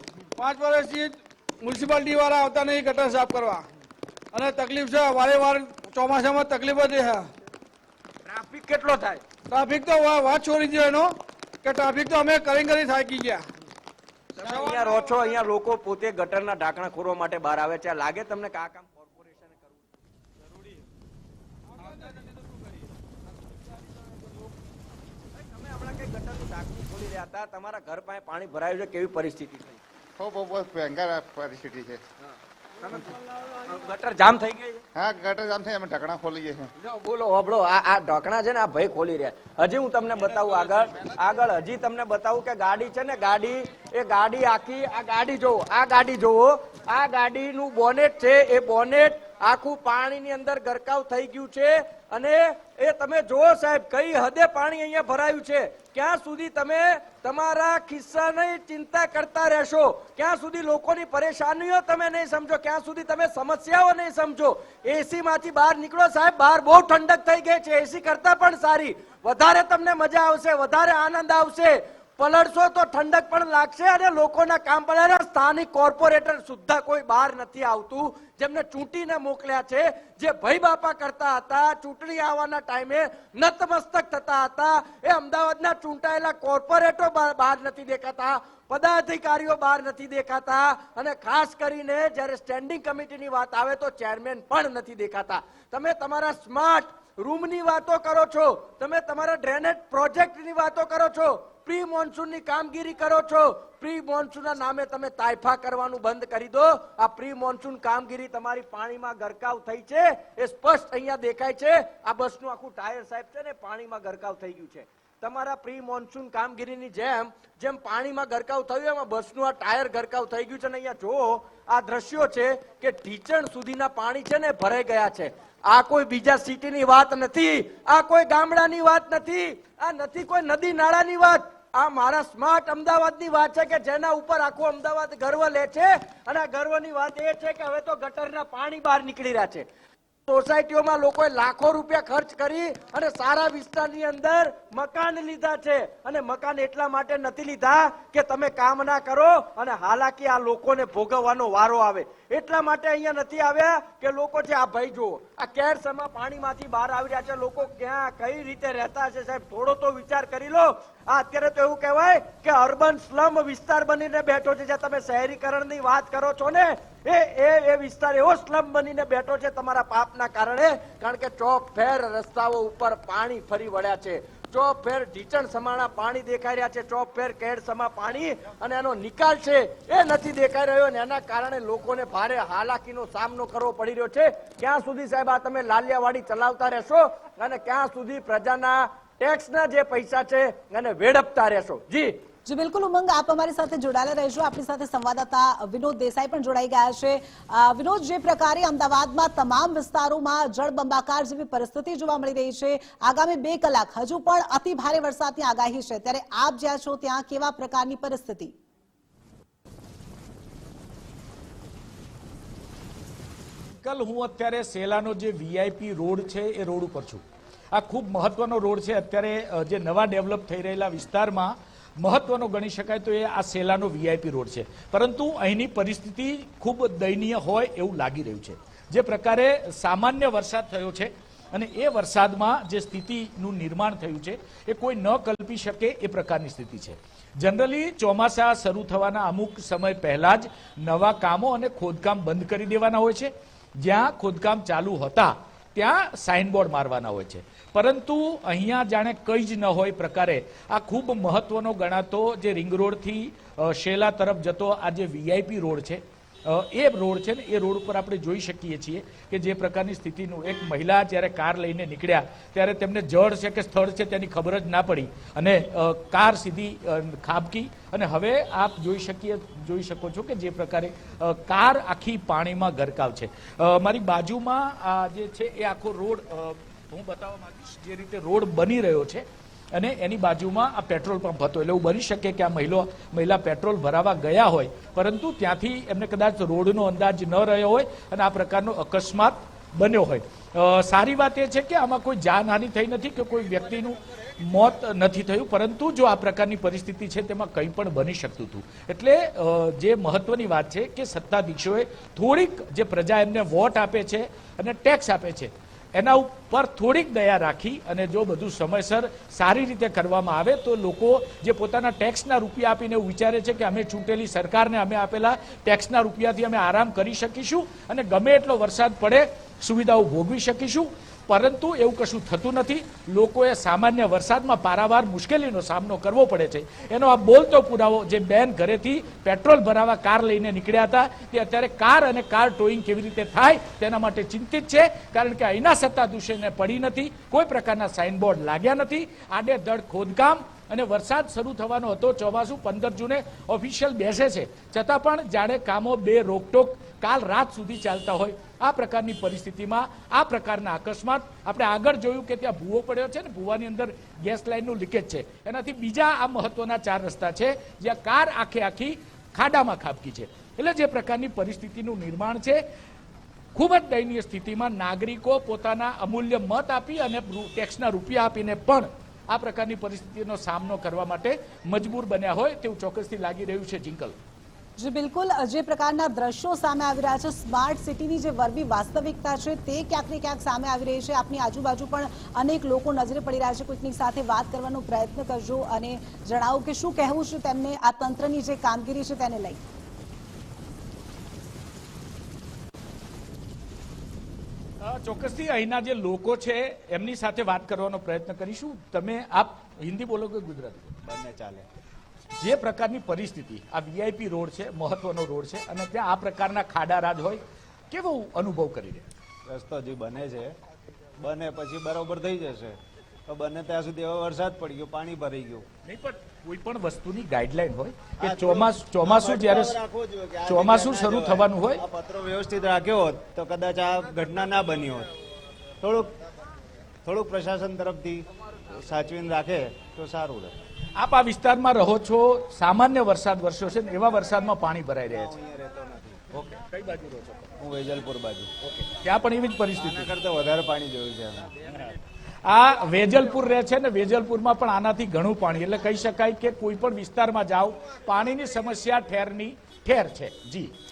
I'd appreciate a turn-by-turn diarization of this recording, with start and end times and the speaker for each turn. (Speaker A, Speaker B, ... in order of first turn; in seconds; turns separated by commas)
Speaker A: 0.4-3.7, Speaker A: 4.3-7.3, Speaker B: 8.2-9.2, Speaker A: 9.5-13.5, Speaker B: 14.4-19.8, Speaker A: 14.4-15.3, Speaker B: 20.5-20.8, Speaker B: 25.3-29.8, Speaker C: 30.2-32.0, Speaker B: 32.8-34.8, Speaker C: 34.9-36.7, Speaker B: 36.8-139.7, Speaker B: 140.3-192.2, Speaker D: 192.4-208.5, Speaker E: 213.8-362.6, Speaker E: 363.5-374.1, Speaker D: 374.8-389.6, Speaker E: 394.8-401.0, Speaker F: 401.0-401.6, Speaker E: 402.4-409.1, Speaker F: 409.5-410.5, Speaker F: 411.2-415.6, Speaker E: 415.8-419.8, Speaker F: 418.2-425.1, Speaker E: 420.4-421.8, Speaker F: 425.8-426.1, Speaker F: 427.0-430.5, Speaker E: 431.0-435.3, Speaker F: 435.1-436.2, Speaker E: 436.3-437.5, Speaker F: 437.6-438.5, Speaker E: 438.6-440.1, Speaker F: 439.8-441.6, Speaker E: 442.4-450.7